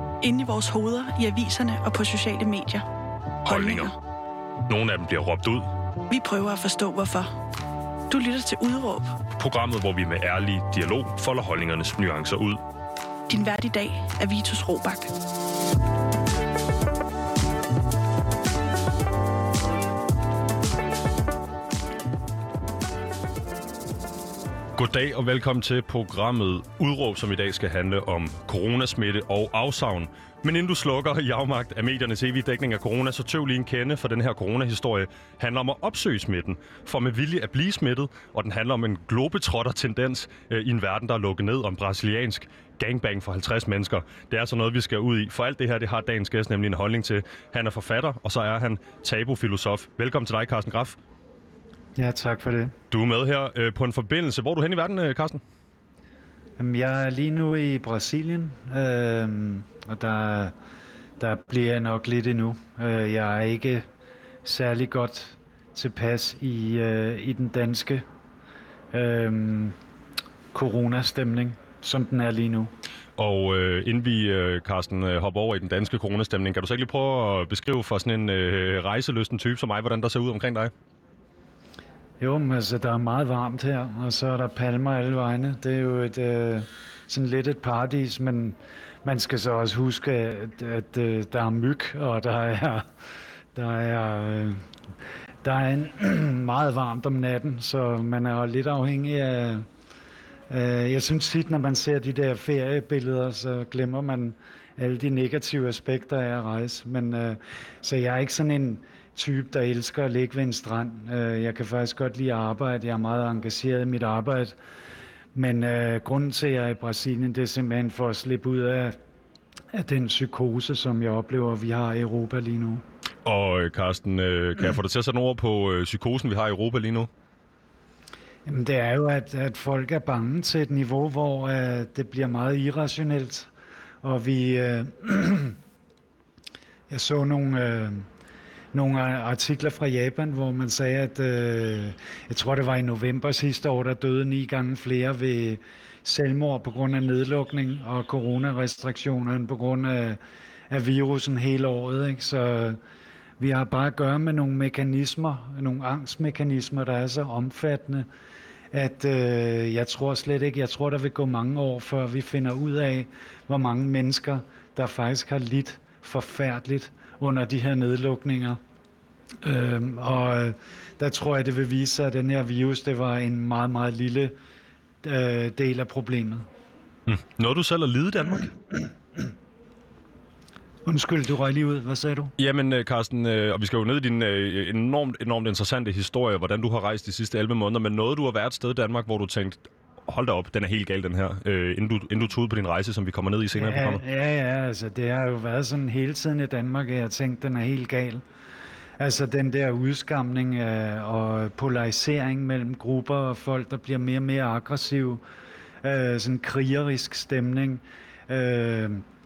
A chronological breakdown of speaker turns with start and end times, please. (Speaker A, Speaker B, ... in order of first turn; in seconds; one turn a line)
Speaker A: 0.2-2.9
Speaker B: 3.4-3.9
Speaker A: 3.5-3.9
Speaker B: 4.7-5.7
Speaker A: 6.1-7.3
Speaker A: 8.1-9.2
Speaker B: 9.3-12.6
Speaker A: 13.3-15.1
Speaker B: 24.8-51.0
Speaker C: 52.0-52.7
Speaker B: 52.9-55.4
Speaker C: 56.6-60.5
Speaker C: 61.2-63.8
Speaker C: 64.4-68.0
Speaker C: 68.9-69.8
Speaker C: 70.5-72.7
Speaker B: 73.2-80.7
Speaker C: 82.2-92.9
Speaker C: 93.5-94.7
Speaker C: 95.4-99.7
Speaker C: 100.5-114.5
Speaker C: 115.3-119.0
Speaker C: 119.7-122.8
Speaker B: 123.2-127.1
Speaker C: 128.4-133.5
Speaker C: 134.0-135.6
Speaker C: 136.9-138.1
Speaker C: 138.7-152.8
Speaker C: 153.4-158.1
Speaker C: 158.7-168.6
Speaker C: 169.4-174.3
Speaker C: 175.0-176.4
Speaker B: 177.1-178.5
Speaker C: 180.8-182.3
Speaker B: 182.4-194.0
Speaker C: 193.5-198.2
Speaker C: 199.0-205.2
Speaker C: 205.8-209.0